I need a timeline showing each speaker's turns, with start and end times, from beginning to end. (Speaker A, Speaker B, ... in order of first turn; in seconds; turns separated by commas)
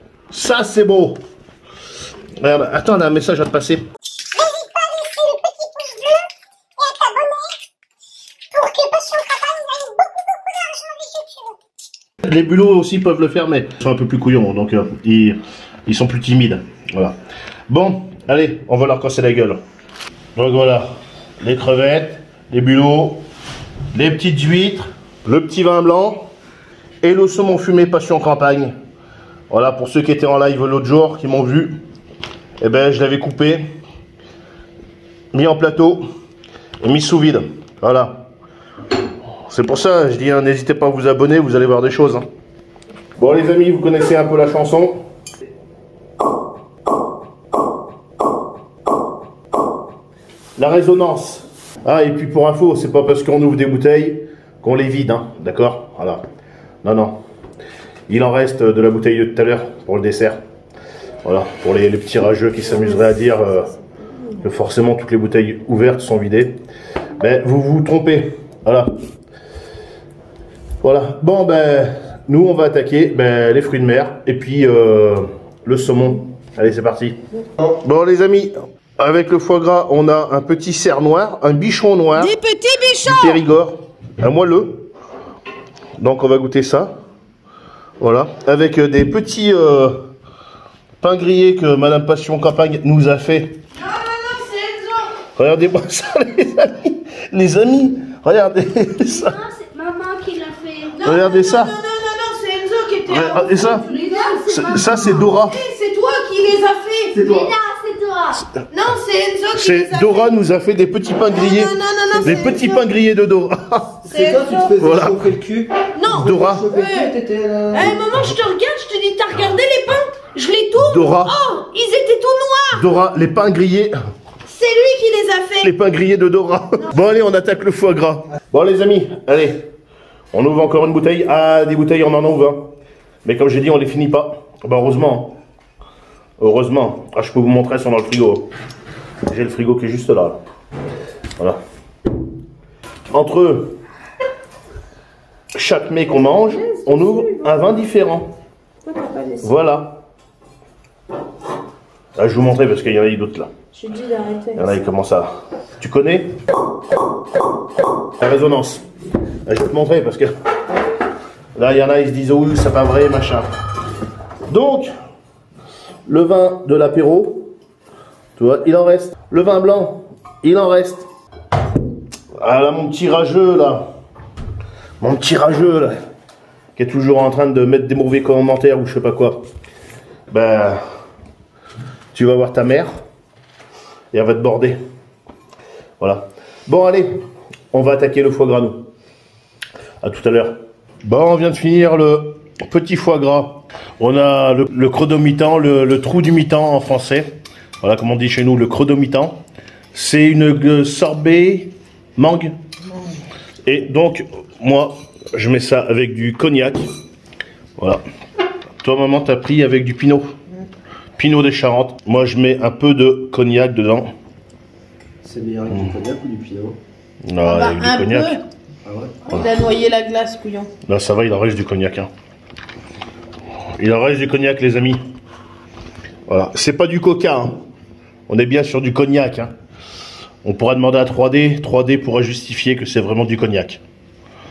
Speaker A: 0.3-1.2, Speaker A: 2.4-3.8, Speaker B: 8.8-9.2, Speaker A: 12.2-17.2, Speaker A: 17.7-19.6, Speaker A: 20.4-23.2, Speaker A: 23.9-26.3, Speaker A: 27.0-28.7, Speaker A: 29.5-31.8, Speaker A: 32.6-33.6, Speaker A: 35.3-36.0, Speaker A: 36.8-38.3, Speaker A: 39.4-42.2, Speaker A: 43.2-45.0, Speaker A: 50.6-56.2, Speaker A: 56.8-57.2, Speaker A: 58.1-60.4, Speaker A: 61.2-63.7, Speaker C: 62.6-63.8, Speaker A: 64.4-66.6, Speaker A: 67.2-68.9, Speaker A: 70.8-82.3, Speaker C: 82.2-83.4, Speaker A: 83.0-84.9, Speaker A: 86.0-86.9, Speaker A: 88.0-90.1, Speaker A: 91.0-93.6, Speaker C: 93.8-95.2, Speaker A: 95.3-99.3, Speaker B: 99.1-101.1, Speaker C: 101.0-107.3, Speaker A: 101.0-101.7, Speaker A: 103.1-103.8, Speaker B: 103.6-105.2, Speaker A: 104.5-105.6, Speaker D: 107.1-107.5, Speaker B: 107.2-108.4, Speaker C: 108.7-110.4, Speaker A: 109.5-114.0, Speaker C: 111.2-112.8, Speaker C: 114.0-114.8, Speaker D: 114.0-118.0, Speaker A: 114.8-115.2, Speaker C: 115.9-117.1, Speaker A: 116.1-116.7, Speaker C: 117.7-122.8, Speaker A: 120.8-121.3, Speaker A: 122.7-123.9, Speaker C: 124.5-125.7, Speaker A: 125.6-129.7, Speaker A: 130.3-132.7, Speaker A: 133.2-135.4, Speaker A: 136.4-138.5, Speaker A: 139.3-140.4, Speaker A: 143.1-143.8, Speaker A: 145.5-148.3, Speaker C: 146.1-147.5, Speaker C: 148.8-149.5, Speaker A: 149.4-150.0, Speaker A: 152.2-153.5, Speaker C: 153.7-154.8, Speaker A: 154.6-156.3, Speaker A: 158.2-158.8, Speaker A: 159.4-160.3, Speaker A: 161.6-163.5, Speaker A: 164.5-164.9, Speaker A: 166.1-167.5, Speaker A: 168.4-171.1, Speaker A: 172.3-173.9, Speaker A: 175.0-176.0, Speaker A: 176.8-179.4, Speaker A: 180.3-180.8, Speaker A: 182.1-182.9, Speaker A: 184.1-184.8, Speaker A: 186.0-187.2, Speaker A: 187.7-188.8, Speaker A: 190.0-199.4, Speaker A: 199.9-202.5, Speaker A: 203.6-206.9, Speaker A: 207.8-208.0, Speaker A: 208.8-210.3, Speaker A: 211.2-214.1, Speaker D: 215.2-216.8, Speaker A: 217.2-218.4, Speaker C: 217.4-218.4, Speaker D: 218.8-219.2, Speaker C: 219.3-220.7, Speaker A: 220.8-222.1, Speaker A: 223.8-225.0, Speaker A: 226.3-227.6, Speaker A: 228.3-229.5, Speaker A: 230.4-233.8